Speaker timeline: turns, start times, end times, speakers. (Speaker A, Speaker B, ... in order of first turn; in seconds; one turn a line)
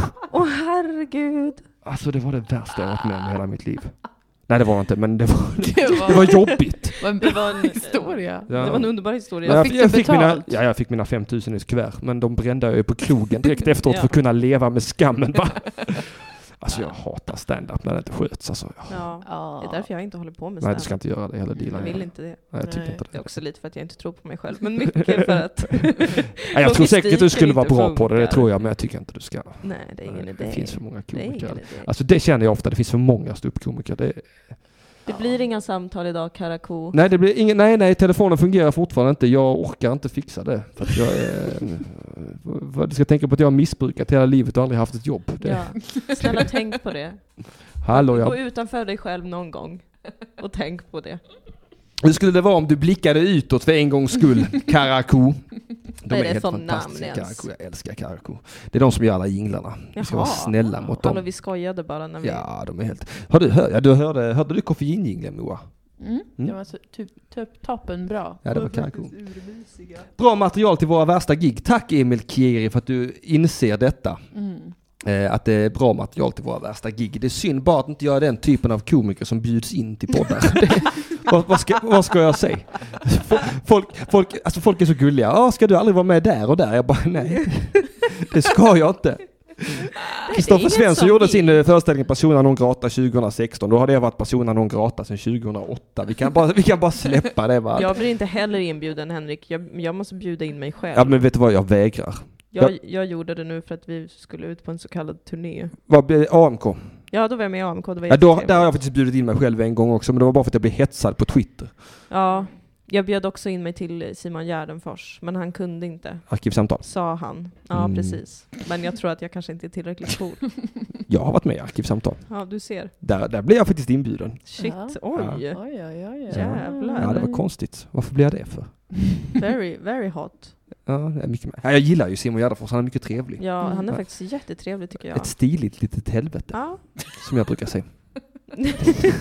Speaker A: 0.3-1.7
Speaker B: 1.8-7.4
Speaker C: 5.6-10.6
Speaker A: 6.1-10.0
Speaker B: 8.5-19.1
Speaker A: 13.8-14.1
Speaker A: 18.9-31.9
Speaker C: 19.2-19.9
Speaker B: 20.6-23.4
Speaker C: 21.5-23.0
Speaker B: 25.9-34.8
Speaker C: 35.0-35.4
Speaker A: 35.0-37.0
Speaker B: 36.9-46.4
Speaker A: 45.4-51.2
Speaker B: 47.8-48.4
Speaker B: 52.0-61.4
Speaker A: 56.1-57.5
Speaker A: 59.9-62.5
Speaker B: 62.2-66.5
Speaker C: 66.0-68.4
Speaker B: 68.4-69.3
Speaker A: 68.5-70.0
Speaker B: 70.2-74.3
Speaker C: 74.3-74.7
Speaker B: 75.0-97.9
Speaker A: 90.1-91.6
Speaker A: 97.7-101.3
Speaker B: 100.9-102.7
Speaker A: 102.5-105.8
Speaker B: 105.9-107.1
Speaker A: 107.1-108.8
Speaker B: 108.1-112.0
Speaker A: 112.1-120.8
Speaker C: 112.2-112.6
Speaker B: 116.3-118.3
Speaker B: 121.1-124.4
Speaker A: 122.3-122.9
Speaker A: 124.5-127.3
Speaker C: 124.6-127.5
Speaker B: 125.1-129.0
Speaker A: 129.3-130.6
Speaker B: 130.8-134.6
Speaker A: 133.4-135.3
Speaker C: 133.6-133.9
Speaker B: 135.1-138.2
Speaker A: 136.5-137.0